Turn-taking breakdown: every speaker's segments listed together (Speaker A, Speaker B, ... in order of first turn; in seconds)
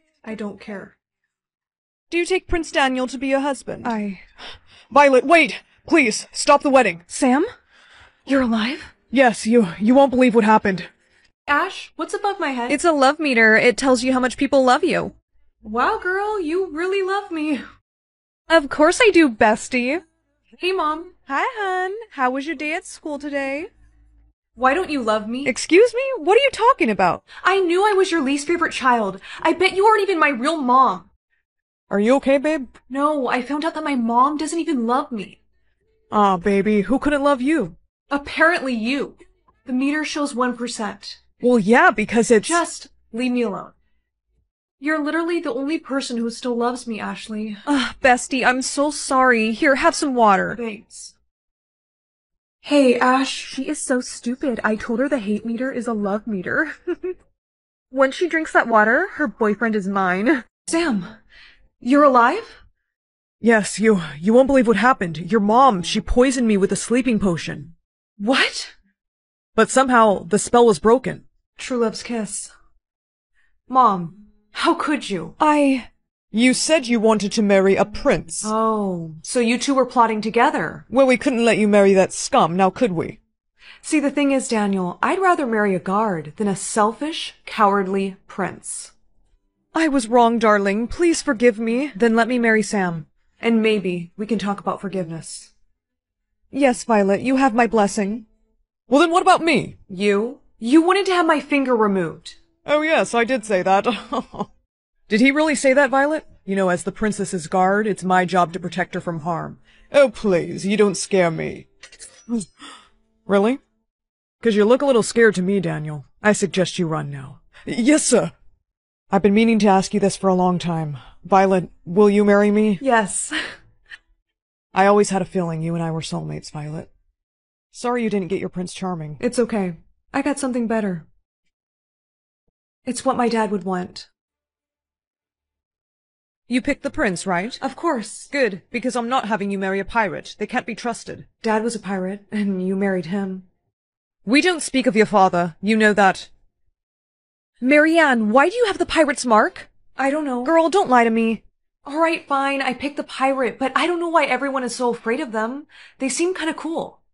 Speaker A: 0.2-0.9, 3.8-4.2, 7.1-7.5, 8.3-8.9, 11.5-12.8, 15.6-17.6, 20.6-21.1, 24.6-25.5, 27.4-31.0, 32.9-35.4, 38.1-41.2, 42.4-43.7, 44.8-47.6, 50.5-51.1, 52.6-55.3, 60.7-61.1, 61.8-62.6, 68.2-68.7, 71.6-72.5, 73.7-75.3, 78.4-80.8, 83.8-88.9, 93.4-95.4, 99.9-102.4, 122.8-123.4, 129.2-131.0, 132.8-134.1, 137.6-138.3, 141.4-143.4, 149.9-150.5, 151.8-157.0
Speaker B: 2.1-3.9, 6.4-7.0, 12.7-15.1, 18.5-20.0, 21.2-23.7, 25.4-27.2, 31.9-32.4, 42.0-42.6, 47.6-50.6, 53.6-54.8, 55.3-56.8, 57.9-60.4, 75.4-75.9, 89.7-93.1, 95.1-95.5, 96.5-98.2, 105.1-106.4, 136.5-137.6, 138.3-141.3, 144.2-146.3, 147.6-149.7, 150.4-151.4
Speaker C: 4.9-6.4, 9.1-10.9, 31.9-32.7, 36.1-37.7, 41.4-42.1, 63.4-67.7, 69.6-71.2, 76.3-78.5, 80.9-83.1, 98.9-99.7, 102.7-104.5, 106.3-111.7, 113.3-113.6, 114.4-118.3, 119.1-122.8, 124.7-126.9, 127.7-129.2